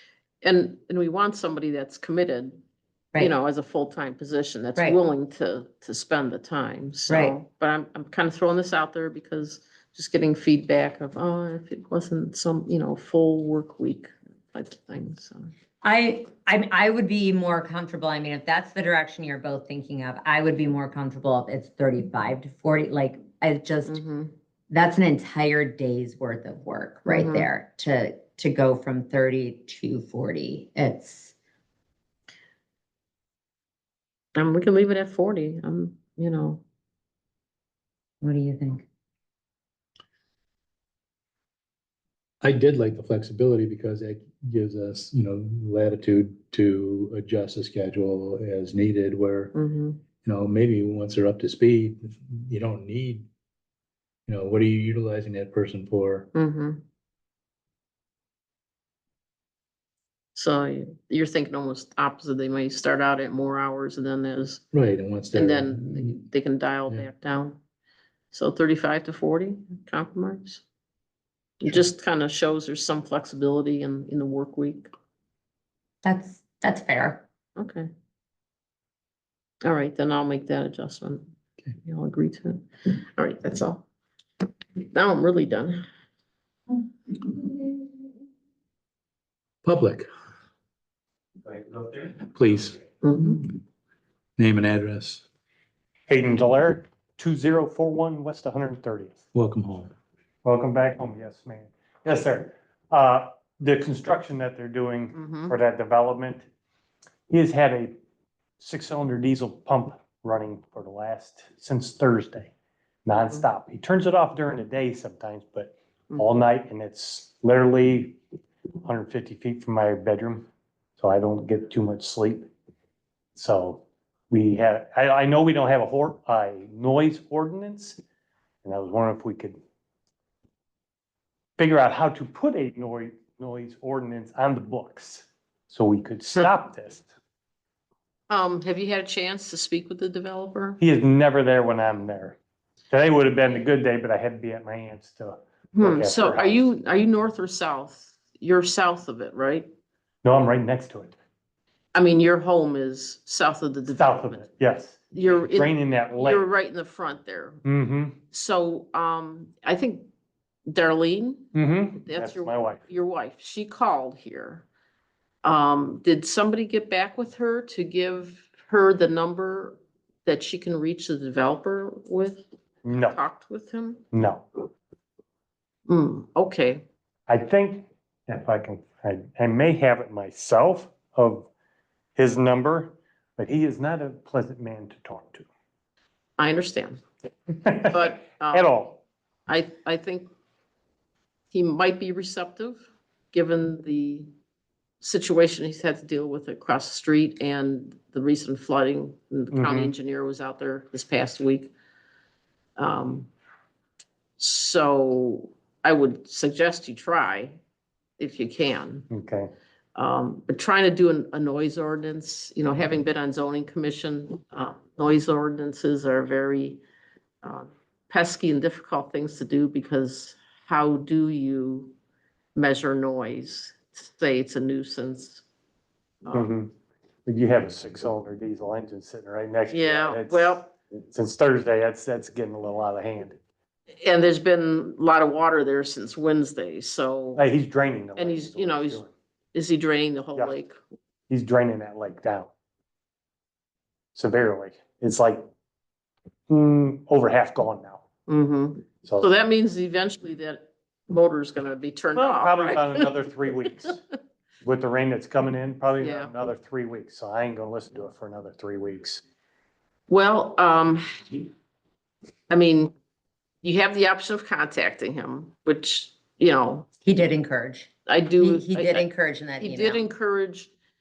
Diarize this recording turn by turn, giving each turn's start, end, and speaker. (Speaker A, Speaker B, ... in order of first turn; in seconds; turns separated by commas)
Speaker A: 0.4-2.6, Speaker A: 3.2-15.5, Speaker B: 7.1-7.4, Speaker B: 15.8-24.0, Speaker A: 23.9-24.3, Speaker B: 24.7-31.3, Speaker A: 27.1-27.5, Speaker A: 34.4-36.6, Speaker B: 38.2-38.9, Speaker C: 42.4-49.5, Speaker A: 49.5-50.0, Speaker C: 50.2-53.3, Speaker C: 54.3-56.3, Speaker A: 56.3-56.8, Speaker A: 60.4-64.6, Speaker C: 64.7-66.2, Speaker A: 65.3-67.6, Speaker A: 68.3-70.6, Speaker A: 71.6-74.9, Speaker B: 76.0-77.2, Speaker A: 77.6-77.9, Speaker A: 79.6-81.3, Speaker A: 81.8-83.8, Speaker A: 84.8-85.8, Speaker C: 89.6-90.1, Speaker C: 91.5-92.8, Speaker A: 93.0-93.5, Speaker C: 94.4-95.2, Speaker D: 96.1-99.2, Speaker C: 99.3-99.9, Speaker D: 100.4-106.5, Speaker A: 105.1-105.6, Speaker D: 107.3-108.0, Speaker D: 108.6-112.5, Speaker D: 113.0-118.2, Speaker A: 113.2-113.5, Speaker D: 118.8-122.5, Speaker D: 123.4-128.0, Speaker D: 128.6-129.6, Speaker D: 131.6-137.1, Speaker A: 138.3-140.8, Speaker D: 140.8-142.4, Speaker D: 142.9-146.7, Speaker A: 145.8-149.7, Speaker D: 150.2-151.2, Speaker A: 151.9-154.5, Speaker D: 153.9-156.4, Speaker A: 155.1-157.6, Speaker D: 157.6-158.2, Speaker A: 158.3-160.1, Speaker A: 160.7-164.7, Speaker D: 161.5-162.8, Speaker A: 165.4-174.0, Speaker D: 172.8-173.2, Speaker D: 174.1-174.5, Speaker A: 175.9-176.8, Speaker D: 177.3-181.5, Speaker D: 182.2-185.5, Speaker A: 186.4-187.0, Speaker D: 187.6-189.0, Speaker A: 187.8-188.8, Speaker A: 189.5-190.3, Speaker A: 191.5-192.8, Speaker A: 193.3-194.3, Speaker A: 195.0-201.7, Speaker D: 199.5-199.9, Speaker A: 202.8-203.3, Speaker A: 204.4-207.6, Speaker A: 208.2-209.1, Speaker D: 209.1-209.5, Speaker A: 210.0-216.8, Speaker A: 217.4-221.9, Speaker A: 222.6-225.4, Speaker A: 226.2-226.5, Speaker D: 226.3-226.7, Speaker D: 227.3-233.4, Speaker A: 229.7-230.7, Speaker A: 234.0-237.4, Speaker D: 237.4-239.1, Speaker A: 238.2-240.8, Speaker D: 241.3-242.5, Speaker D: 244.2-245.4, Speaker D: 246.5-248.1, Speaker A: 248.3-254.0, Speaker D: 249.0-249.3, Speaker D: 252.2-254.0, Speaker D: 254.6-259.2, Speaker A: 256.0-256.3, Speaker A: 260.1-261.5, Speaker A: 262.5-262.9, Speaker A: 263.6-266.9, Speaker B: 267.0-270.1, Speaker A: 268.1-269.1, Speaker A: 269.6-270.7